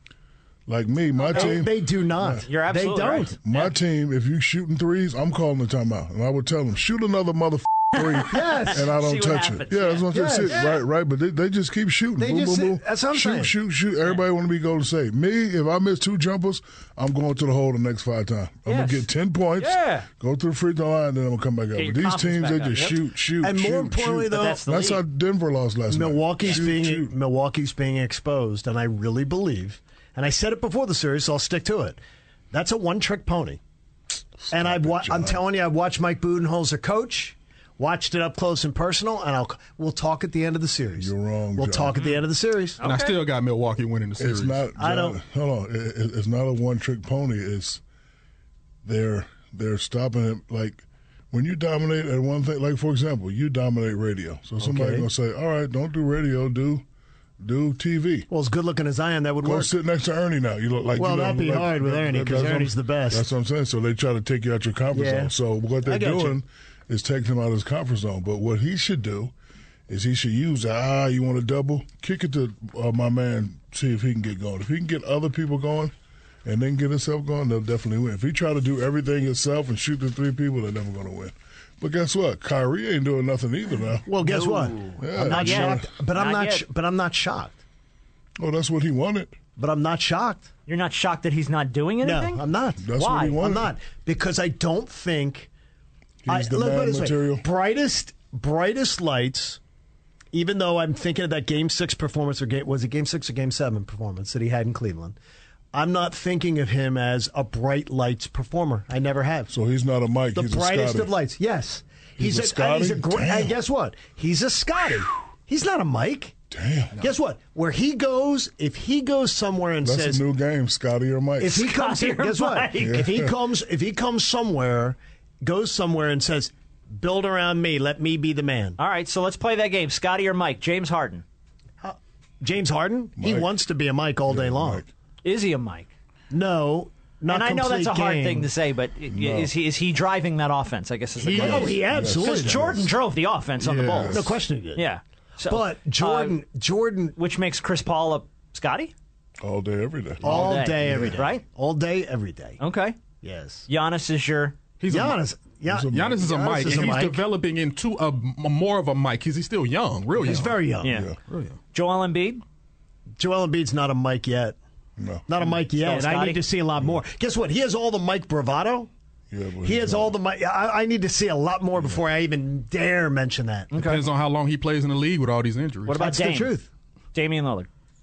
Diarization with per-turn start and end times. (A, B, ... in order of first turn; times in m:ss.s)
0:00.7-0:02.4 A
0:01.2-0:03.3 B
0:01.3-0:01.6 C
0:02.4-0:03.7 C
0:03.3-0:27.1 A
0:08.3-0:08.8 B
0:08.3-0:10.7 C
0:10.1-0:10.7 B
0:12.2-0:13.5 B
0:18.7-0:19.0 C
0:19.6-0:20.1 C
0:21.8-0:23.0 C
0:23.4-0:24.6 B
0:24.3-0:25.0 C
0:25.9-0:32.0 B
0:32.5-0:33.6 B
0:34.4-0:35.4 A
0:34.5-0:42.8 B
0:41.0-0:42.0 A
0:42.8-0:43.2 C
0:42.8-0:44.7 D
0:44.2-0:47.8 A
0:44.8-0:45.2 B
0:48.8-0:56.8 A
0:54.6-0:55.1 B
0:57.4-0:58.3 A
0:58.3-0:59.7 B
0:59.4-1:09.3 A
1:01.0-1:03.3 B
1:04.9-1:06.4 B
1:09.9-1:15.9 A
1:16.4-1:24.1 A
1:24.0-1:27.6 B
1:24.2-1:26.6 C
1:25.0-1:25.9 A
1:28.4-1:29.4 A
1:29.6-1:30.5 B
1:30.7-1:32.4 C
1:32.0-1:35.5 B
1:32.8-1:33.7 A
1:33.0-1:33.5 C
1:36.2-1:37.4 A
1:36.3-1:39.6 B
1:40.3-1:45.2 B
1:45.7-1:49.5 B
1:49.5-1:51.1 A
1:50.3-1:56.4 B
1:52.2-1:53.6 A
1:56.5-1:57.0 A
1:57.0-2:00.2 B
1:59.8-2:01.6 A
2:01.4-2:08.8 B
2:01.5-2:03.0 C
2:02.8-2:03.4 A
2:08.8-2:11.2 C
2:11.8-2:14.8 B
2:13.2-2:13.5 A
2:14.3-2:14.9 A
2:15.2-2:15.9 C
2:16.3-2:18.5 B
2:17.3-2:26.4 C
2:19.1-2:19.5 A
2:21.2-2:22.9 B
2:21.3-2:22.9 A
2:23.8-2:24.4 A
2:23.9-2:24.9 B
2:25.5-2:27.1 B
2:27.2-2:28.9 C
2:29.4-2:31.2 A
2:30.2-2:32.6 B
2:30.2-2:31.4 C
2:32.6-2:33.0 C
2:33.2-2:33.6 B
2:33.7-2:34.6 C
2:34.8-2:35.2 D
2:34.9-2:37.2 B
2:35.7-2:36.2 A
2:35.9-2:40.6 D
2:40.2-2:41.0 B
2:40.8-2:41.1 C
2:40.9-2:41.2 A
2:41.3-2:41.5 D
2:41.7-2:42.4 C
2:43.2-2:44.6 B
2:45.0-2:45.3 A
2:45.3-2:48.9 B
2:45.5-2:46.4 C
2:49.3-2:50.2 A
2:49.6-2:53.7 B
2:53.7-2:54.0 C
2:53.7-2:56.1 D
2:55.9-2:56.6 C
2:56.0-2:56.7 B
2:57.1-2:57.7 C